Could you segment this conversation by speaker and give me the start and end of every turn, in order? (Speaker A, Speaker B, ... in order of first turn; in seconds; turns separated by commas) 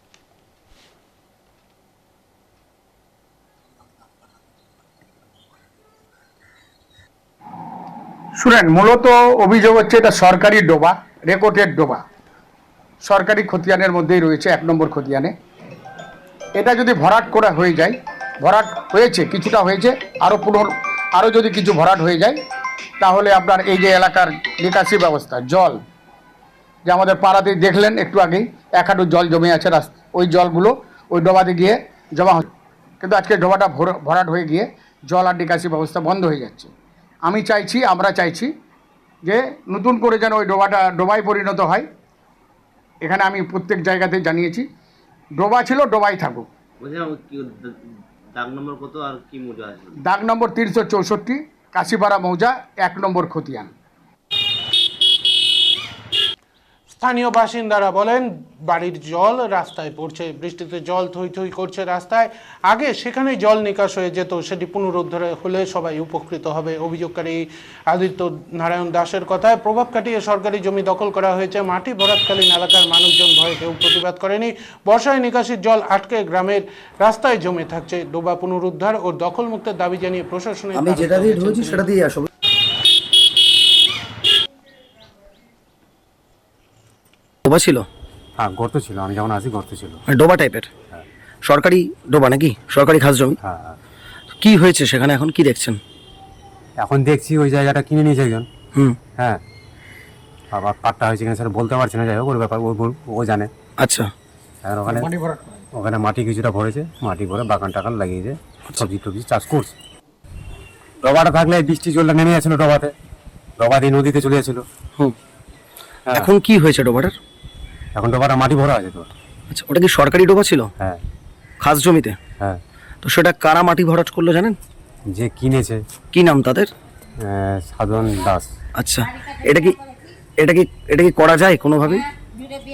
Speaker A: 8.4-12.0, Speaker A: 13.0-15.3, Speaker A: 16.6-22.4, Speaker A: 23.0-25.8, Speaker A: 26.9-32.5, Speaker A: 33.0-36.7, Speaker A: 37.2-38.5, Speaker A: 39.3-41.9, Speaker A: 43.0-44.7, Speaker A: 45.4-46.5, Speaker B: 46.8-47.8, Speaker B: 48.3-49.9, Speaker A: 50.0-53.7, Speaker C: 56.9-81.9, Speaker D: 87.5-87.9, Speaker E: 88.4-90.0, Speaker D: 90.1-90.7, Speaker D: 91.5-93.4, Speaker E: 93.4-93.8, Speaker D: 94.4-95.8, Speaker E: 96.8-98.5, Speaker E: 100.5-103.5, Speaker D: 103.8-104.1, Speaker E: 104.6-105.1, Speaker A: 104.9-105.6, Speaker E: 105.7-109.8, Speaker E: 111.0-112.9, Speaker E: 113.6-114.6, Speaker D: 116.2-117.2, Speaker E: 118.0-119.1, Speaker D: 119.5-120.7, Speaker D: 121.6-122.2, Speaker D: 123.0-124.6, Speaker E: 125.1-125.8, Speaker D: 126.1-126.7, Speaker E: 127.2-128.5, Speaker D: 128.8-129.7, Speaker D: 130.4-132.0